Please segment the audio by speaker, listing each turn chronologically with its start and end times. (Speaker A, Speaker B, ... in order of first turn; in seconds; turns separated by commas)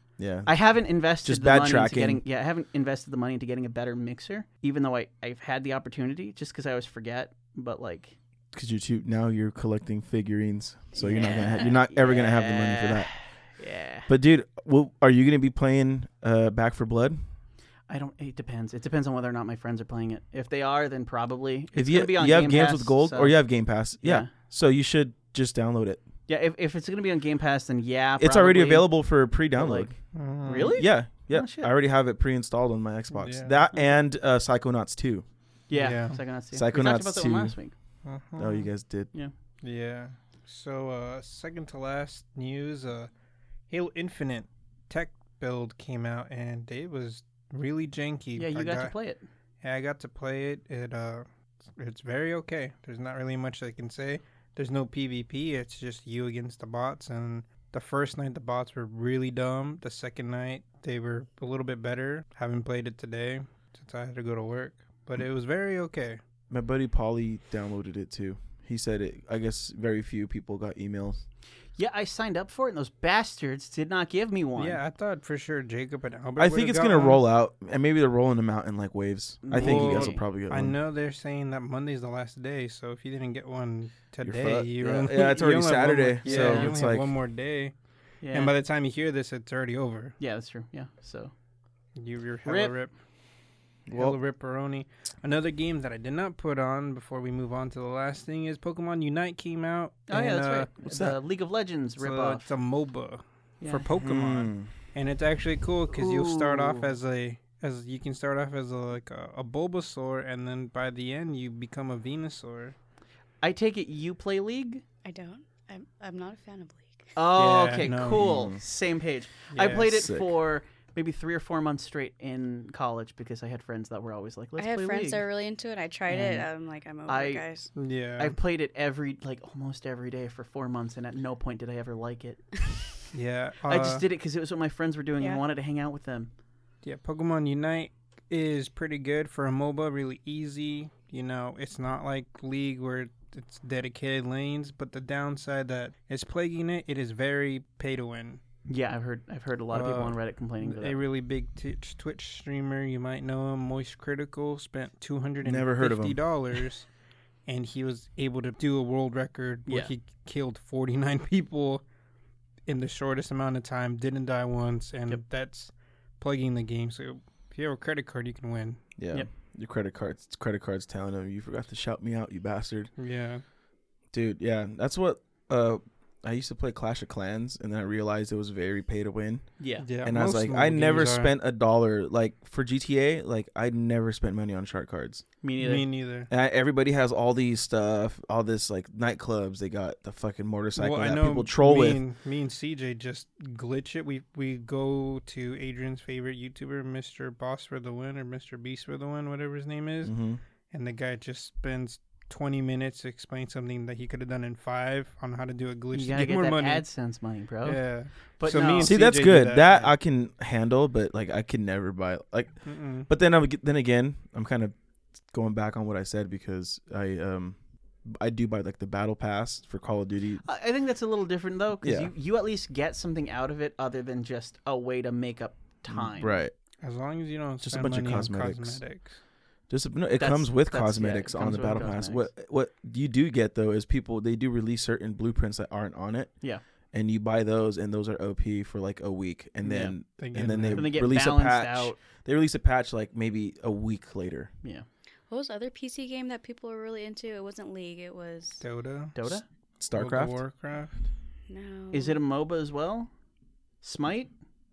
Speaker A: 0.2-0.5, Speaker B: 0.4-8.2, Speaker A: 1.2-2.2, Speaker A: 8.5-13.1, Speaker B: 10.9-14.1, Speaker C: 11.1-11.7, Speaker A: 14.1-17.2, Speaker B: 17.9-23.4, Speaker A: 21.7-26.0, Speaker B: 24.0-24.3, Speaker B: 26.3-28.9, Speaker A: 28.2-30.0, Speaker B: 29.5-31.7, Speaker D: 30.1-30.8, Speaker A: 30.8-35.2, Speaker D: 33.1-33.6, Speaker B: 35.7-37.7, Speaker D: 35.7-36.2, Speaker A: 36.5-37.5, Speaker D: 38.0-38.7, Speaker A: 38.4-39.1, Speaker D: 39.6-43.1, Speaker D: 43.7-48.9, Speaker B: 48.3-49.2, Speaker D: 49.6-66.2, Speaker A: 66.5-71.2, Speaker B: 71.8-74.8, Speaker D: 74.6-77.2, Speaker A: 76.4-80.8, Speaker B: 79.4-80.2, Speaker D: 79.5-87.7, Speaker A: 84.2-87.1, Speaker B: 86.2-86.7, Speaker B: 88.2-88.5, Speaker D: 88.3-90.2, Speaker B: 90.2-91.3, Speaker D: 92.0-92.9, Speaker B: 92.4-92.7, Speaker A: 93.9-94.2, Speaker D: 93.9-100.7, Speaker B: 100.1-102.5, Speaker A: 100.8-101.2, Speaker D: 102.0-112.7, Speaker A: 104.0-104.7, Speaker B: 105.9-106.9, Speaker B: 113.4-114.8, Speaker C: 115.0-117.1, Speaker B: 117.1-125.2, Speaker D: 117.3-118.2, Speaker A: 118.1-118.6, Speaker D: 119.5-119.9, Speaker A: 119.7-120.3, Speaker C: 124.6-127.7, Speaker B: 126.1-126.5, Speaker B: 127.1-127.4, Speaker D: 127.7-128.4, Speaker B: 128.2-132.6, Speaker D: 133.1-134.0, Speaker B: 133.7-136.3, Speaker D: 136.8-148.4, Speaker B: 148.7-151.0, Speaker D: 149.7-156.9, Speaker A: 155.4-156.2, Speaker D: 157.5-161.8, Speaker D: 162.7-168.8, Speaker A: 169.0-172.9, Speaker D: 173.0-173.4, Speaker A: 174.1-179.5, Speaker B: 179.6-179.8, Speaker D: 179.8-181.3, Speaker A: 180.0-185.2, Speaker B: 185.4-185.8, Speaker D: 185.6-186.3, Speaker A: 186.3-192.0, Speaker D: 190.8-200.1, Speaker A: 200.0-200.4, Speaker D: 200.7-206.8, Speaker B: 205.9-207.8, Speaker D: 207.6-209.9, Speaker B: 208.4-208.9, Speaker A: 208.8-214.7, Speaker D: 212.6-213.1, Speaker A: 215.2-220.4, Speaker B: 220.4-226.4, Speaker A: 221.8-222.1, Speaker A: 225.9-226.5, Speaker D: 226.8-229.2, Speaker A: 227.6-228.8, Speaker A: 229.7-236.3, Speaker B: 230.2-232.3, Speaker A: 236.9-244.5, Speaker B: 239.6-239.9, Speaker D: 240.2-240.9, Speaker B: 240.7-242.0, Speaker C: 245.3-248.6, Speaker D: 248.6-249.2, Speaker B: 249.1-249.4, Speaker A: 249.3-250.4, Speaker D: 249.9-251.0, Speaker C: 251.5-252.2, Speaker B: 251.9-253.1, Speaker B: 253.8-254.3